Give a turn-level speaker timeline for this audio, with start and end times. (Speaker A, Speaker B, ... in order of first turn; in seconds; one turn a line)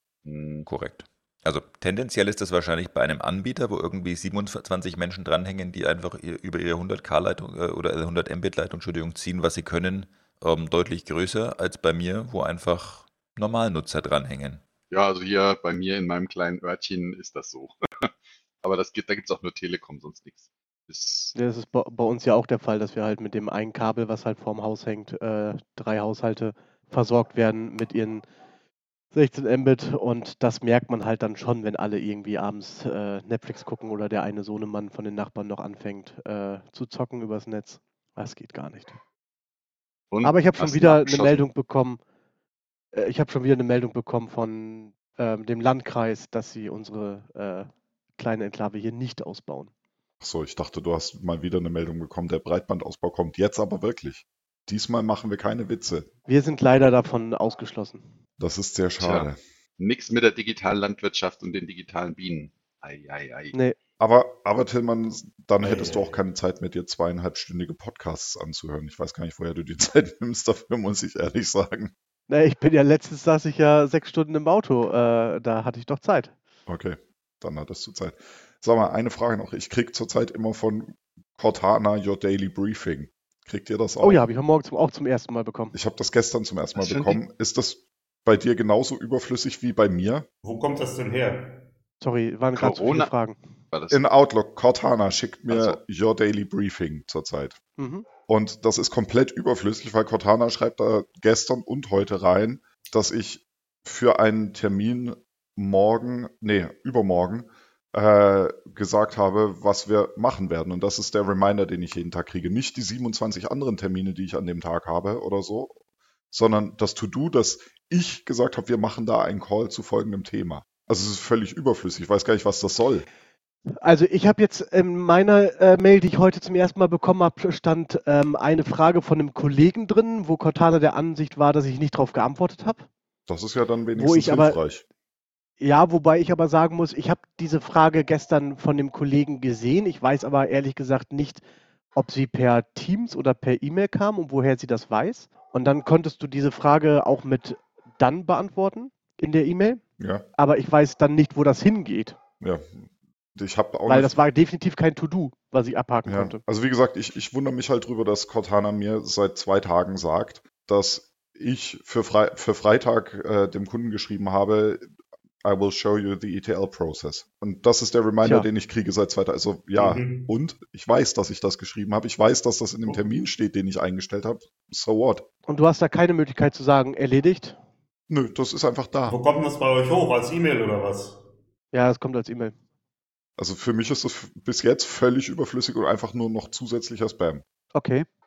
Speaker A: 0.2-0.7
Speaker B: 0.7-14.6
Speaker A: 14.9-18.1
Speaker A: 18.6-21.4
Speaker C: 21.3-28.2
Speaker C: 29.1-39.0
Speaker A: 40.1-41.4
Speaker C: 40.2-42.0
Speaker C: 42.9-49.7
Speaker D: 50.2-56.1
Speaker C: 56.3-58.0
Speaker D: 58.4-59.4
Speaker A: 59.0-59.3
Speaker A: 59.8-63.6
Speaker D: 64.0-71.9
Speaker E: 65.6-66.2
Speaker C: 72.3-76.3
Speaker D: 76.7-84.3
Speaker C: 84.0-85.7
Speaker D: 85.7-90.3
Speaker A: 86.8-87.2
Speaker E: 90.4-91.7
Speaker C: 92.0-93.4
Speaker A: 92.5-93.1
Speaker A: 93.7-94.0
Speaker D: 93.9-97.6
Speaker A: 95.5-95.8
Speaker C: 97.8-98.1
Speaker D: 98.3-115.8
Speaker D: 116.3-123.1
Speaker C: 123.8-132.9
Speaker D: 133.3-134.8
Speaker C: 134.0-134.6
Speaker C: 135.6-141.4
Speaker C: 141.9-149.8
Speaker D: 150.0-150.2
Speaker C: 150.4-152.2
Speaker D: 152.4-154.1
Speaker C: 153.9-156.4
Speaker D: 156.1-164.9
Speaker D: 165.4-175.2
Speaker E: 169.8-170.3
Speaker C: 175.5-177.6
Speaker D: 178.1-179.2
Speaker E: 179.1-181.2
Speaker C: 181.7-182.6
Speaker D: 183.4-187.4
Speaker C: 187.7-188.1